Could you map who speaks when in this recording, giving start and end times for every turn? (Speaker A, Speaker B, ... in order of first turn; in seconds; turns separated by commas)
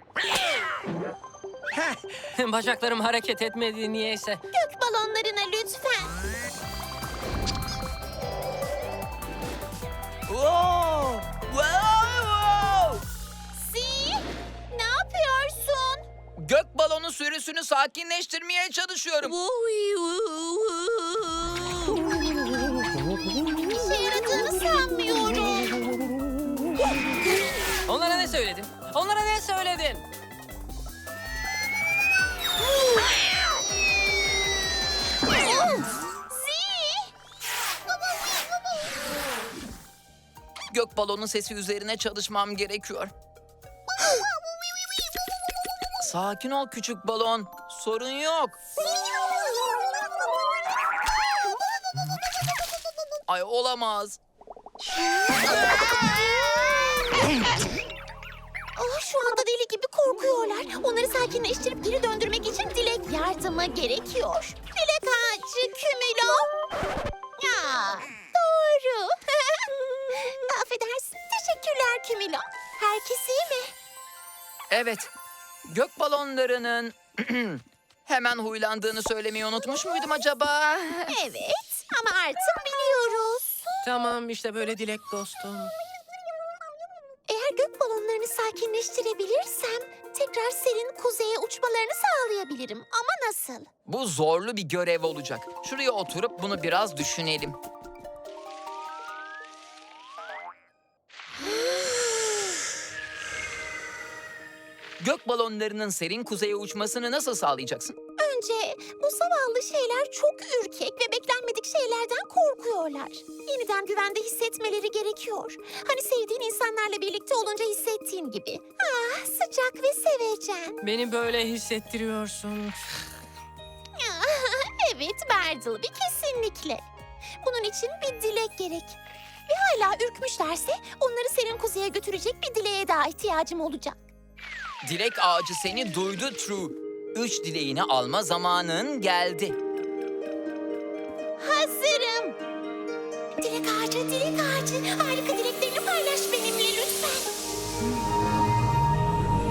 Speaker A: 1.8-4.4, Speaker B: 4.5-6.1, Speaker C: 10.3-13.0, Speaker B: 13.5-16.0, Speaker C: 16.4-19.4, Speaker A: 19.3-22.0, Speaker B: 23.6-25.9, Speaker A: 27.9-30.0, Speaker B: 35.3-37.1, Speaker C: 40.7-43.1, Speaker C: 46.0-48.6, Speaker C: 53.3-54.2, Speaker B: 55.3-57.1, Speaker B: 58.8-66.5, Speaker B: 67.4-73.7, Speaker C: 74.7-75.1, Speaker C: 75.7-81.2, Speaker B: 81.1-83.6, Speaker A: 83.8-85.7, Speaker B: 87.3-93.7, Speaker C: 93.8-97.6, Speaker B: 101.4-102.4, Speaker C: 105.0-108.0, Speaker B: 108.2-120.8, Speaker A: 120.8-123.0, Speaker B: 123.9-126.8, Speaker B: 127.4-129.0, Speaker B: 129.5-134.0, Speaker C: 134.8-139.6, Speaker B: 141.4-142.4, Speaker B: 143.4-147.3